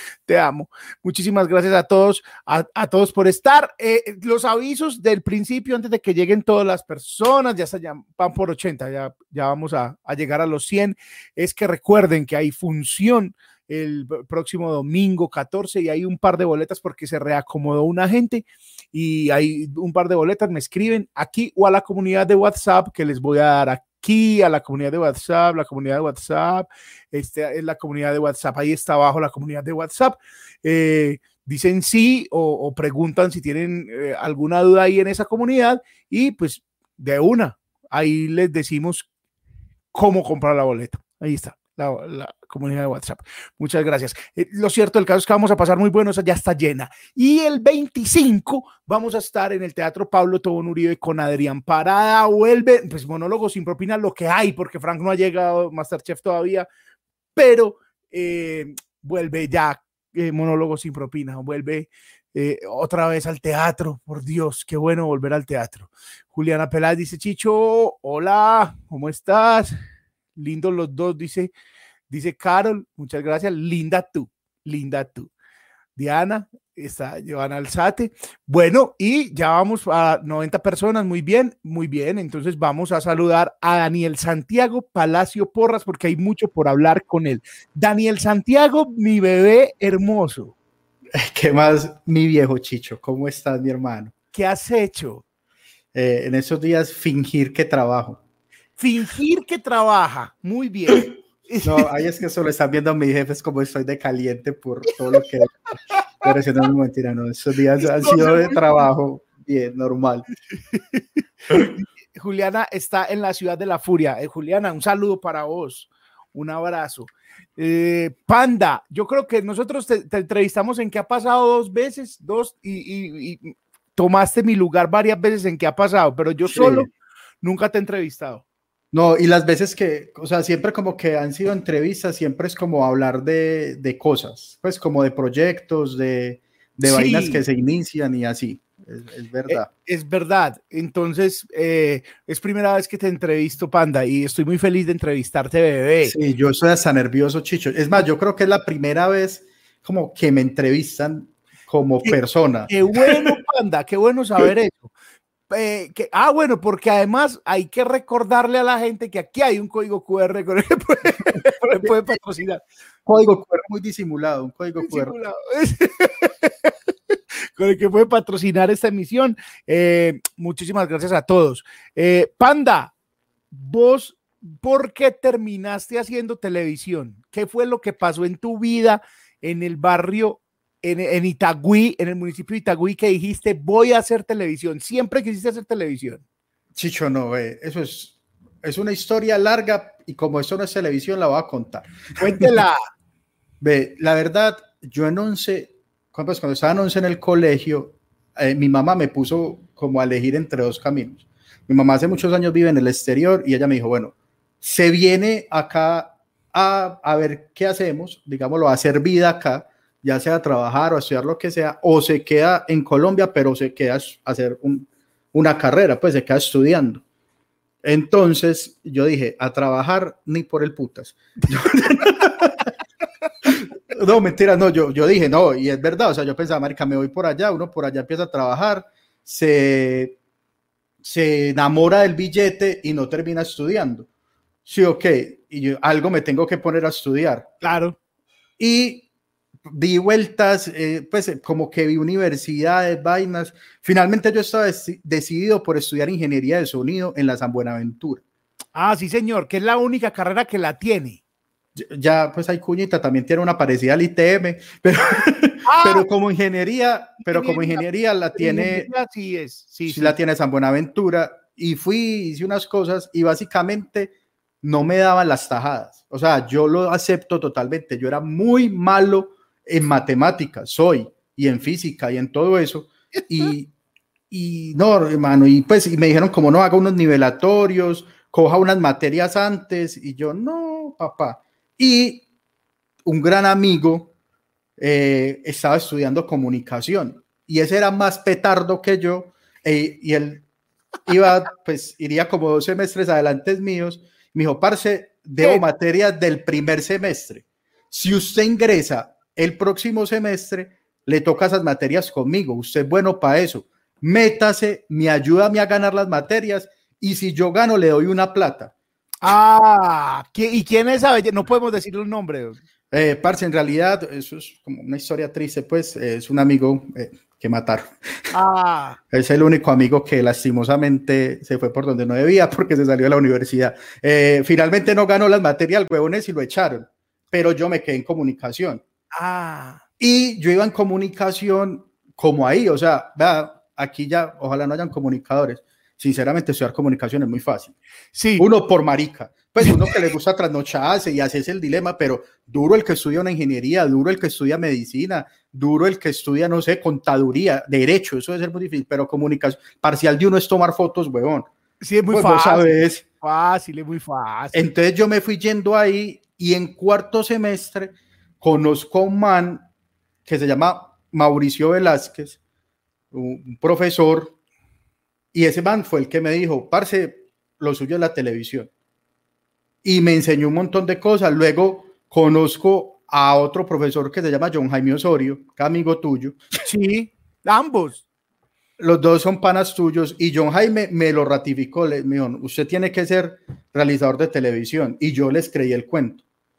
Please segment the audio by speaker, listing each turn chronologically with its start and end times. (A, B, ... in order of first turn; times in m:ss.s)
0:00.3-0:39.1 A
0:39.9-0:56.7 A
0:57.4-1:09.7 A
1:10.4-1:11.5 A
1:12.1-1:15.3 A
1:16.0-1:30.5 A
1:31.1-1:34.1 B
1:34.3-1:35.2 A
1:35.9-1:38.2 B
1:38.8-1:41.8 A
1:41.6-1:45.6 B
1:46.2-1:50.2 B
1:47.8-1:48.8 A
1:51.5-2:06.9 A
2:06.4-2:06.9 B
2:07.4-2:08.4 A
2:08.9-2:19.7 B
2:16.8-2:17.4 A
2:19.5-2:26.2 A
2:26.0-2:33.4 B
2:32.0-2:34.9 A
2:35.5-2:42.6 A
2:43.0-2:45.2 B
2:44.8-2:46.7 A
2:47.6-2:52.9 A
2:53.5-3:06.2 A
3:06.7-3:12.5 B
3:12.2-3:12.9 A
3:13.6-3:37.0 B
3:37.8-3:42.6 B
3:43.4-3:50.2 B
3:51.0-3:54.1 B
3:54.6-3:57.5 B
3:57.6-3:58.0 A
3:58.6-3:59.0 B
3:59.6-4:08.2 B
4:08.7-4:11.2 A
4:11.8-4:18.9 B
4:15.6-4:16.0 A
4:17.2-4:17.8 A
4:18.4-4:20.2 A
4:19.8-4:33.7 B
4:34.3-4:42.2 B
4:43.0-4:44.1 B
4:44.8-4:50.4 B
4:51.1-5:08.7 B
5:09.2-5:12.6 A
5:12.9-5:18.0 B
5:18.3-5:19.0 A
5:19.1-5:28.8 B
5:29.1-5:29.8 A
5:30.0-5:37.8 B
5:38.1-5:38.5 A
5:38.4-5:51.5 B
5:51.8-5:54.6 A
5:52.1-5:53.0 B
5:54.5-5:59.7 B
6:00.2-6:02.4 B
6:03.1-6:04.3 B
6:05.3-6:08.7 B
6:09.8-6:16.4 B
6:16.6-6:18.0 A
6:18.8-6:26.2 B